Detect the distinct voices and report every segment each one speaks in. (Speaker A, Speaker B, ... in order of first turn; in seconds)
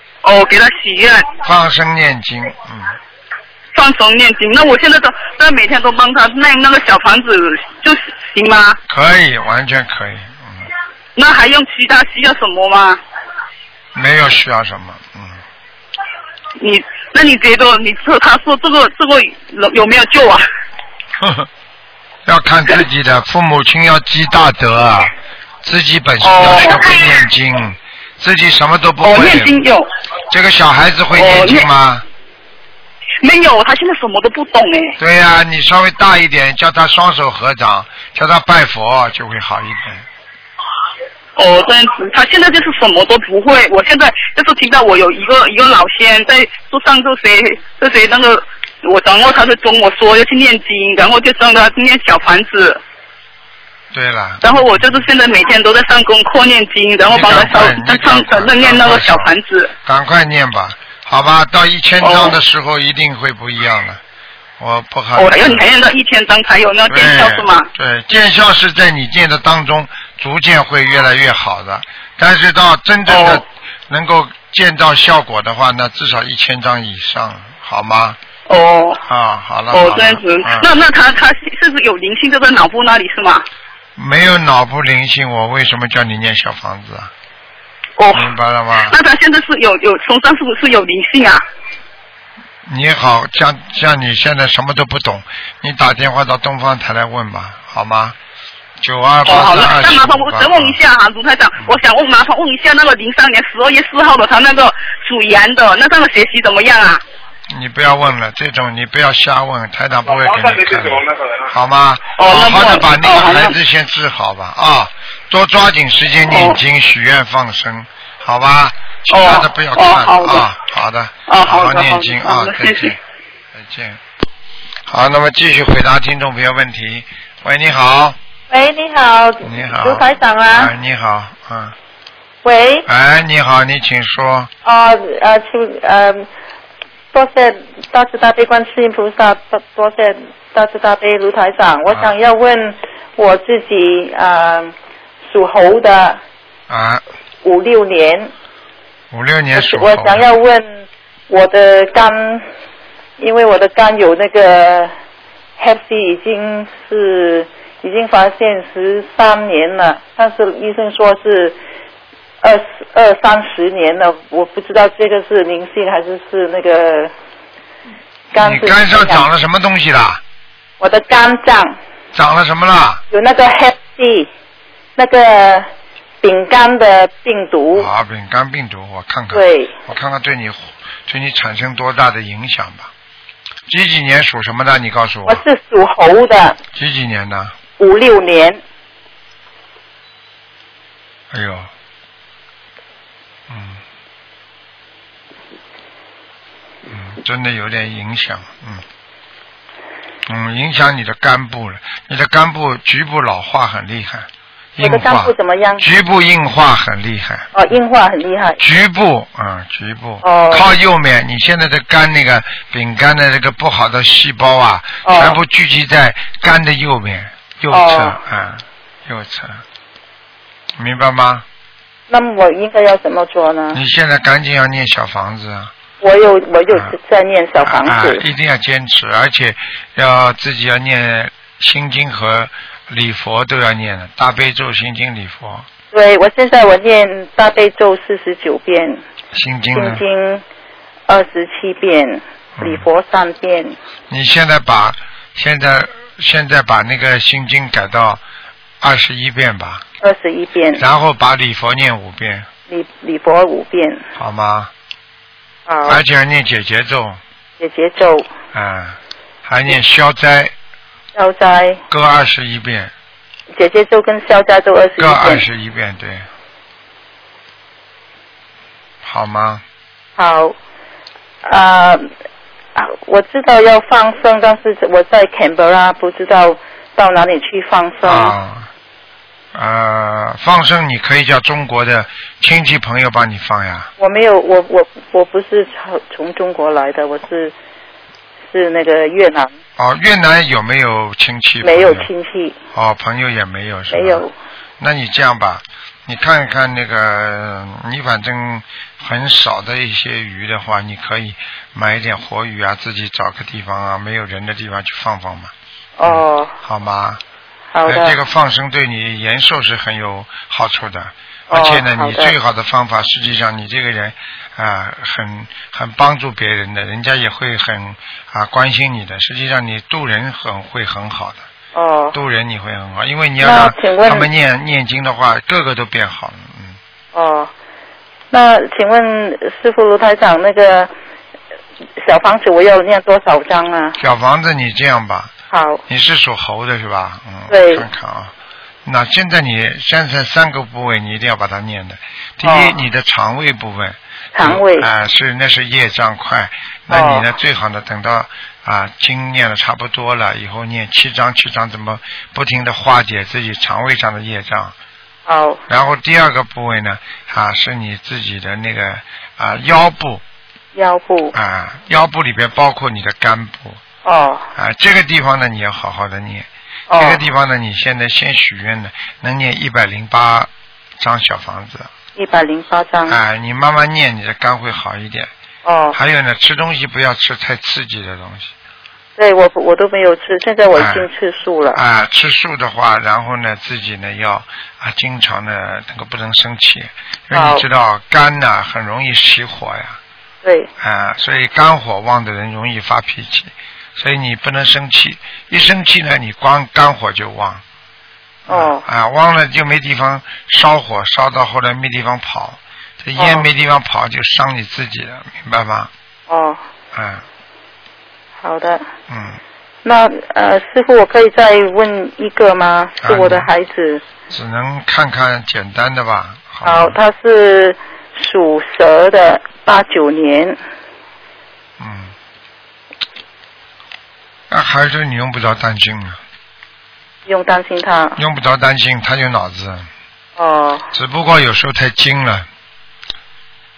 Speaker A: 0.2-1.3, 3.7-8.8, 11.2-13.0, 16.6-20.4, 26.2-27.1, 29.0-29.9, 31.1-31.7, 33.2-35.0, 41.4-52.8, 54.4-59.7, 62.0-62.4, 65.2-67.7, 73.1-73.4, 78.5-79.0, 79.7-83.4, 88.0-88.3, 88.8-91.4, 99.2-107.0, 112.2-113.5, 116.3-116.6, 119.1-120.5, 121.3-123.0
Speaker B: 1.4-2.9, 8.9-10.7, 13.9-15.4, 21.2-21.5, 22.2-25.1, 25.6-29.6, 30.3-32.0, 35.0-40.0, 53.9-55.0, 57.1-64.0, 64.6-65.7, 66.9-78.2, 79.1-80.7, 84.0-87.1, 88.1-88.9, 92.7-98.2, 98.8-100.8, 107.5-123.0, 123.5-124.0, 124.8-128.2, 129.4-131.8, 132.8-134.5, 146.7-147.0, 149.1-150.2, 168.3-170.2, 172.1-173.0, 177.7-182.9, 183.7-185.4, 186.7-187.5, 191.3-191.7, 193.5-193.8, 196.9-198.8, 200.3-207.5, 208.6-219.6, 220.8-221.4, 223.7-225.7, 227.6-235.7, 239.3-240.0, 242.6-242.8, 244.1-248.2, 248.8-249.8, 250.8-252.5, 254.2-254.7, 255.8-257.2, 258.5-260.5, 261.9-262.9, 265.0-266.3, 269.0-269.6, 278.0-278.7, 279.5-283.9, 289.8-292.1, 292.7-294.2, 294.8-305.5, 306.0-307.2, 307.8-321.4, 322.1-326.8, 334.0-335.3, 335.9-338.3, 338.8-354.7, 355.7-360.2, 361.3-363.8, 364.5-371.9, 373.1-375.3, 375.9-378.5, 380.7-381.1, 381.7-390.0, 390.8-397.6, 398.5-405.9, 406.9-407.2, 409.1-409.4, 413.0-413.5, 414.3-417.0, 421.8-422.1, 424.5-426.2, 428.2-429.9, 430.9-432.5
Speaker C: 128.5-130.7, 132.4-132.8, 134.6-136.3, 137.1-144.7, 145.3-146.2, 147.4-148.3, 149.5-152.4, 153.2-154.9, 155.6-161.6, 162.4-167.1, 168.3-169.3, 170.8-171.8, 173.1-174.3, 175.0-175.7, 176.2-177.9, 179.3-179.7, 185.2-186.6, 187.8-188.6, 204.8-205.8, 207.5-208.6, 210.2-210.7, 215.0-215.4, 217.7-218.2, 222.1-223.8, 226.0-228.2, 235.9-239.0, 239.7-240.4, 241.1-243.8, 250.0-250.8, 252.7-254.0, 255.7-256.0, 257.6-258.3, 261.1-261.8, 263.5-265.4, 270.2-270.6, 271.4-272.1, 272.8-278.3, 284.0-287.5, 288.5-289.5, 291.6-292.6, 293.9-294.3, 306.0-306.5, 307.7-308.2, 311.5-312.3, 321.7-322.2, 323.4-324.3, 327.1-327.5, 328.3-330.9, 332.0-334.0, 335.5-335.8, 337.5-337.9, 342.4-342.8, 344.3-344.9, 346.9-347.2, 355.3-355.6, 360.7-361.3, 364.0-364.5, 366.9-367.2, 372.1-373.2, 375.6-376.0, 379.2-381.8, 387.3-387.6, 390.4-390.7, 398.5-398.8, 403.2-403.4, 406.3-406.6, 408.4-408.8, 409.8-414.0, 416.6-420.6, 427.2-428.2, 430.4-430.9